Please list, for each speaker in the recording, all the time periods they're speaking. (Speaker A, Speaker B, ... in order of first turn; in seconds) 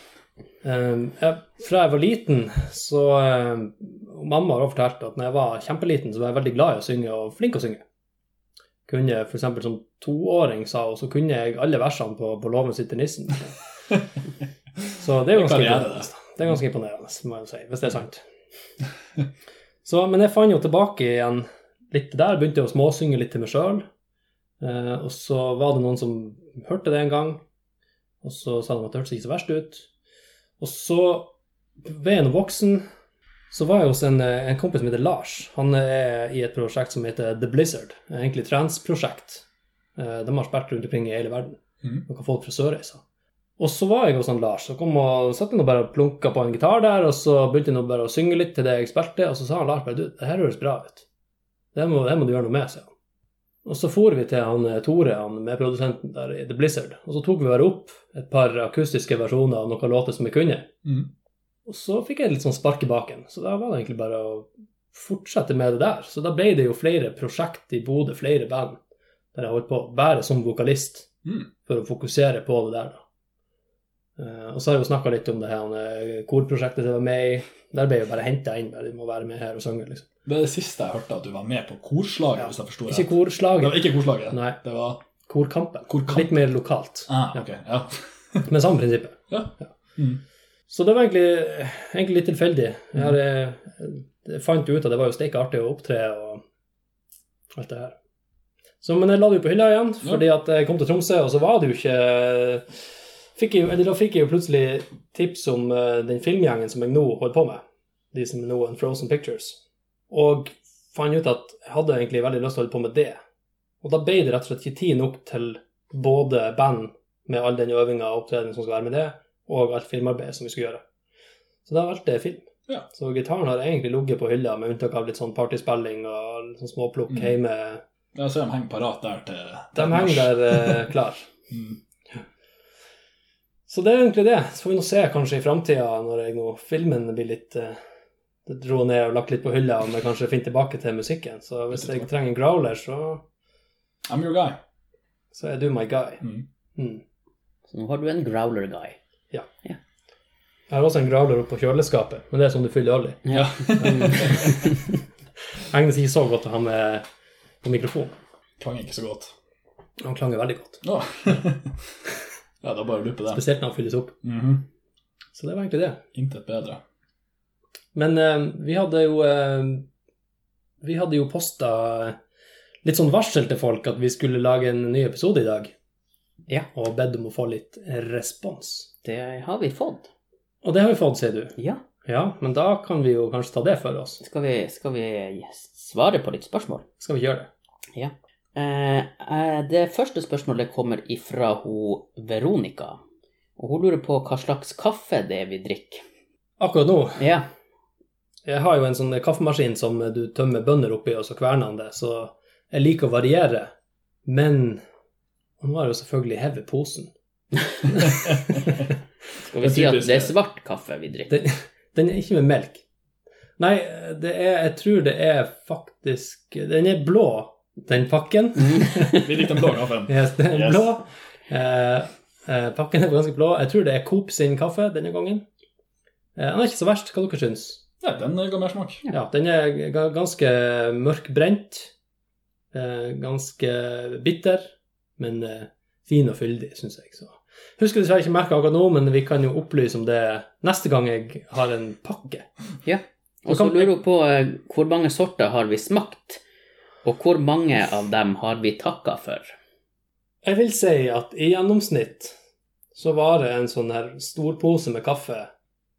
Speaker A: 0.6-7.8, 8.9-13.6, 15.0-18.2, 19.9-23.9, 24.6-27.4, 28.2-29.9, 30.6-31.3, 31.8-32.9, 33.5-39.5, 40.0-43.0, 43.6-51.0, 51.7-52.9, 53.6-60.7, 61.7-68.8, 69.3-71.1, 71.7-73.0, 74.2-80.0, 82.9-84.6, 85.2-87.4, 88.5-89.7, 90.7-96.4, 97.5-98.0, 98.8-102.7, 103.4-107.6, 108.1-113.2, 113.8-120.8, 121.7-127.8, 129.8-131.3, 133.7-137.8, 138.5-143.2, 145.3-146.2, 146.8-147.0, 150.7-153.2, 153.8-154.6, 155.7-157.1, 157.6-158.2, 160.0-160.8, 163.3-164.2, 165.3-166.0, 167.9-169.8, 170.8-172.2, 172.8-175.7, 176.7-178.9, 180.6-181.5, 182.1-184.2, 187.0-187.5, 196.6-197.3, 198.5-203.7, 204.2-204.8, 205.6-207.1, 208.0-208.6, 211.3-212.8, 213.6-219.3, 220.1-225.4, 226.4-227.8, 229.1-231.9, 232.7-242.5, 243.5-243.9, 250.4-252.3, 252.9-255.5
Speaker B: 15.3-16.1, 80.2-85.0, 85.9-86.3, 87.1-88.5, 89.3-90.2, 128.2-130.9, 131.5-131.8, 141.7-142.1, 144.1-144.6, 153.3-154.6, 158.6-159.3, 160.8-161.8, 162.6-163.4, 164.2-164.6, 166.1-166.8, 209.6-210.3, 219.1-220.9, 228.0-229.1
Speaker C: 147.7-149.0, 153.2-154.8, 179.1-180.1, 184.2-186.8, 187.9-193.0, 193.6-196.0, 197.2-197.4, 209.5-211.3, 218.7-219.1, 242.8-246.4, 247.0-249.5